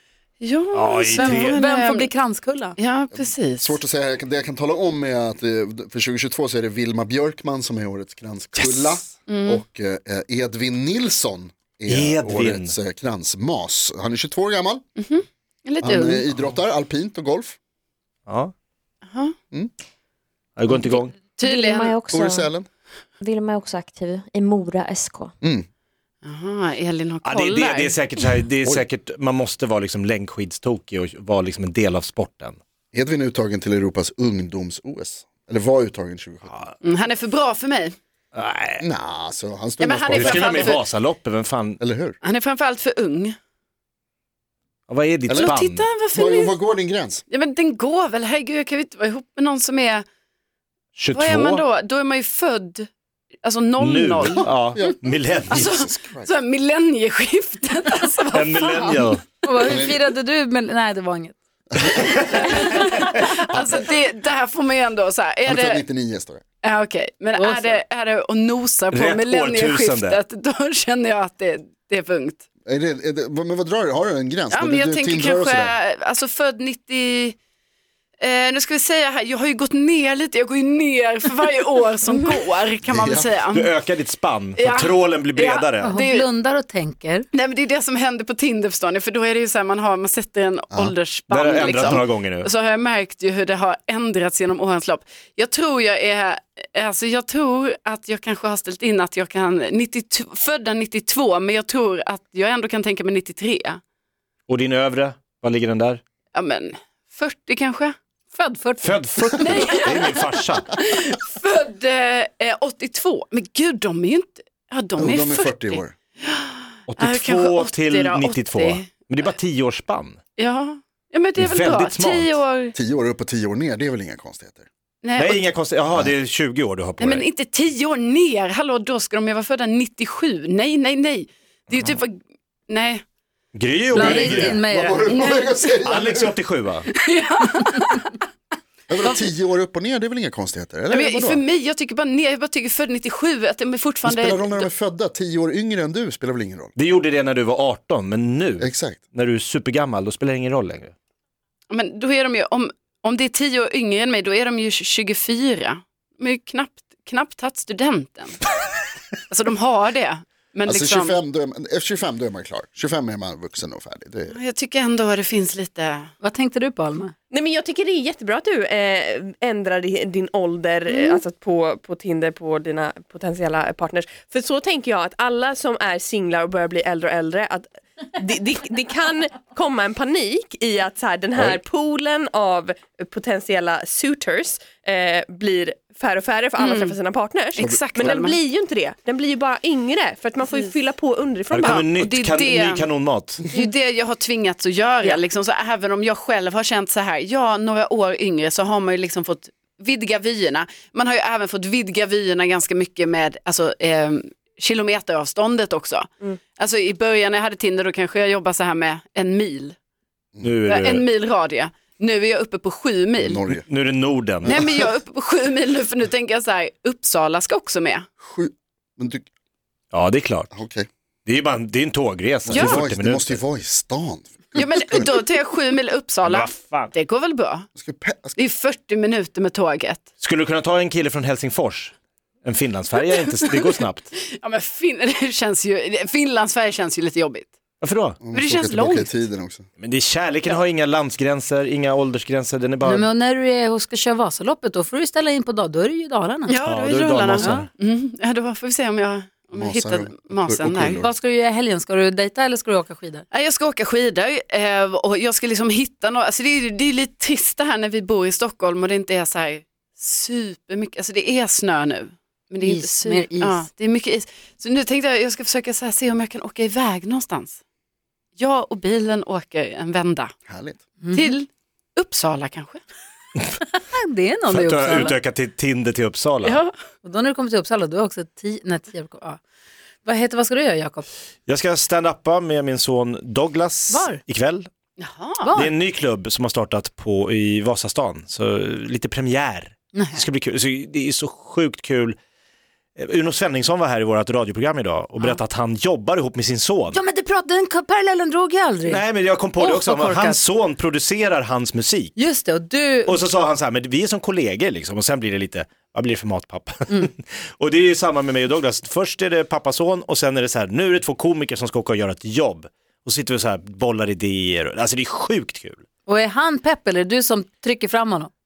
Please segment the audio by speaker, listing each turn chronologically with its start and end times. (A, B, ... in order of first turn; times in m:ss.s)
0:00.4-0:02.1 A
0:00.7-0:01.6 B
0:01.1-0:02.8 C
0:02.8-0:03.8 A
0:03.1-0:14.8 D
0:08.6-0:09.1 B
0:09.3-0:09.6 A
0:11.9-0:12.7 B
0:15.0-0:16.3 A
0:15.8-0:17.6 D
0:18.3-0:18.5 B
0:19.1-0:19.3 A
0:20.6-0:21.1 B
0:21.4-0:22.0 A
0:21.4-0:22.5 E
0:22.1-0:22.7 D
0:23.2-0:25.3 E
0:25.4-0:25.7 D
0:26.2-0:28.0 A
0:27.2-0:32.6 B
0:32.9-0:36.6 D
0:36.8-0:38.0 A
0:38.3-0:38.8 B
0:38.8-0:40.8 D
0:39.8-0:40.8 A
0:40.1-0:41.8 B
0:41.8-0:42.2 D
0:42.2-0:43.4 A
0:44.9-0:45.8 B
0:45.3-0:45.6 D
0:45.3-0:46.6 A
0:46.1-0:47.2 D
0:47.3-0:50.0 A
0:51.0-0:51.6 B
0:51.1-0:52.9 A
0:53.4-0:54.6 A
0:53.8-0:55.8 B
0:54.7-0:56.3 D
0:55.5-0:59.2 A
0:58.3-0:59.2 B
0:59.4-1:01.3 C
0:59.6-1:00.0 D
1:02.0-1:02.7 B
1:02.3-1:05.8 A
1:05.5-1:06.4 D
1:06.6-1:12.4 A
1:07.4-1:07.7 C
1:08.9-1:10.2 B
1:12.6-1:15.8 D
1:14.5-1:17.4 A
1:18.2-1:23.8 A
1:22.9-1:23.3 D
1:23.5-1:26.0 B
1:24.5-1:26.3 A
1:25.8-1:27.3 C
1:27.3-1:43.8 A
1:31.3-1:32.5 B
1:44.5-1:46.0 B
1:46.3-1:48.0 A
1:48.3-1:49.0 C
1:48.8-1:50.7 B
1:49.3-1:59.0 A
1:55.0-1:55.9 D
1:56.9-2:00.2 B
2:00.4-2:02.8 A
2:01.4-2:02.4 B
2:02.8-2:04.7 D
2:05.0-2:05.4 A
2:05.2-2:07.3 B
2:07.0-2:12.1 A
2:12.7-2:13.0 A
2:13.5-2:14.6 B
2:13.9-2:15.1 C
2:13.9-2:16.3 D
2:15.1-2:16.1 A
2:15.8-2:16.9 B
2:16.9-2:18.1 A
2:18.9-2:21.4 D
2:20.9-2:24.7 A
2:24.0-2:26.7 D
2:26.8-2:30.9 B
2:28.6-2:29.0 D
2:31.7-2:38.4 A
2:39.3-2:41.2 A
2:40.7-2:44.4 D
2:44.3-2:46.1 A
2:46.2-2:47.1 C
2:47.3-3:11.9 F
3:06.6-3:07.0 A
3:07.6-3:08.4 A
3:07.6-3:08.0 D
3:11.5-3:13.5 B
3:11.6-3:12.9 A
3:13.5-3:29.8 A
3:30.4-3:31.1 B
3:30.6-3:33.4 A
3:33.2-3:33.6 D
3:33.5-3:34.6 B
3:34.4-3:38.1 A
3:38.2-3:39.2 D
3:39.9-3:40.5 B
3:40.5-3:40.9 D
3:41.3-3:43.4 B
3:42.5-3:45.1 D
3:42.5-3:42.8 A
3:44.6-3:47.7 A
3:46.2-3:46.9 B
3:47.8-3:48.4 D
3:48.4-3:50.0 A
3:50.2-3:54.1 B
3:53.4-3:57.5 A
3:57.8-3:58.2 B
3:58.2-3:59.7 D
3:58.3-3:59.2 A
3:59.8-4:03.1 B
4:02.8-4:06.6 C
4:06.5-4:11.0 A
4:06.6-4:07.7 B
4:09.6-4:11.1 D
4:11.0-4:13.3 C
4:13.3-4:27.6 A
4:22.6-4:23.7 C
4:28.4-4:30.3 A
4:30.5-4:30.8 D
4:31.0-4:31.3 C
4:31.1-4:32.8 A
4:33.8-4:35.2 C
4:34.5-4:36.6 B
4:36.4-4:36.7 A
4:37.0-4:39.4 C
4:40.0-4:41.1 C
4:41.5-4:44.7 B
4:43.9-4:44.2 C
4:45.0-4:45.5 A
4:45.4-4:45.7 C
4:45.5-4:52.2 B
4:49.9-4:50.2 C
4:53.0-4:57.0 B
4:56.9-4:59.0 C
4:58.9-5:02.2 B
4:59.6-5:00.4 C
5:02.2-5:03.2 C
5:03.1-5:15.8 B
5:16.1-5:18.3 C